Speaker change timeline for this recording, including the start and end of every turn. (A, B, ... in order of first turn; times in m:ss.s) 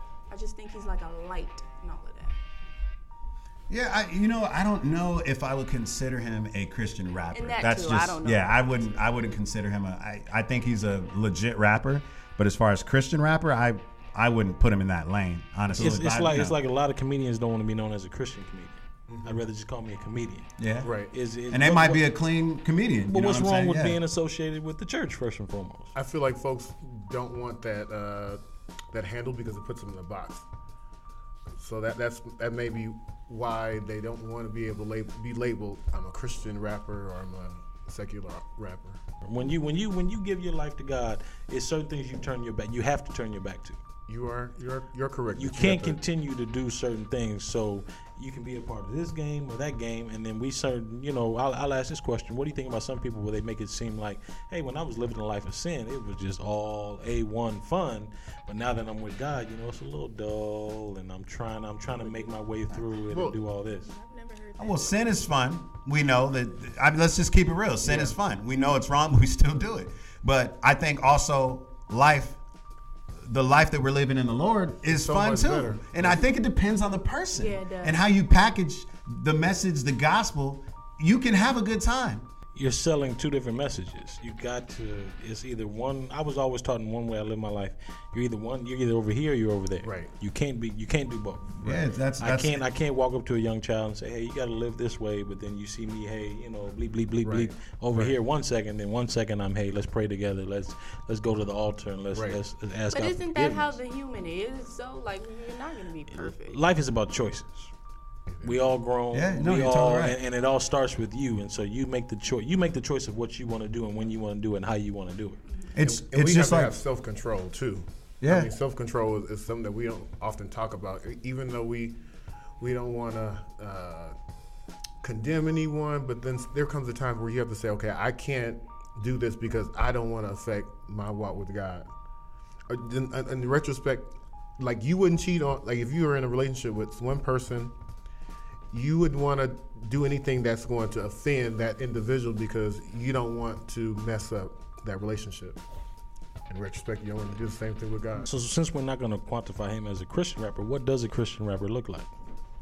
0:00.3-0:02.4 A
0:03.7-0:16.6 B
0:07.3-0:09.0 A
0:15.7-0:20.5 C
0:19.1-0:19.4 D
0:20.6-0:20.9 B
0:20.8-0:21.1 D
0:21.1-0:22.0 C
0:21.5-0:24.0 B
0:23.0-0:25.9 C
0:25.9-0:28.4 D
0:28.9-0:30.4 D
0:31.6-0:39.0 D
0:39.2-0:43.8 C
0:44.1-0:46.0 D
0:45.3-1:03.9 C
1:03.1-1:03.4 D
1:03.8-1:05.2 A
1:04.6-1:12.4 B
1:07.8-1:08.2 D
1:13.2-1:22.3 B
1:14.9-1:16.2 D
1:17.3-1:18.0 A
1:22.5-1:43.8 C
1:29.8-1:30.1 D
1:31.6-1:32.6 B
1:37.2-1:38.2 D
1:42.1-1:42.4 D
1:42.9-1:46.6 A
1:46.1-1:47.7 C
1:48.3-1:48.6 D
1:48.4-1:55.4 C
1:49.1-1:50.2 B
1:55.4-1:55.8 A
1:55.8-1:56.7 B
1:55.8-2:01.9 D
1:58.2-1:58.5 B
2:02.6-2:04.1 D
2:05.0-2:11.9 D
2:12.7-2:17.7 D
2:18.7-2:25.6 D
2:26.5-2:28.3 D
2:28.2-2:32.1 C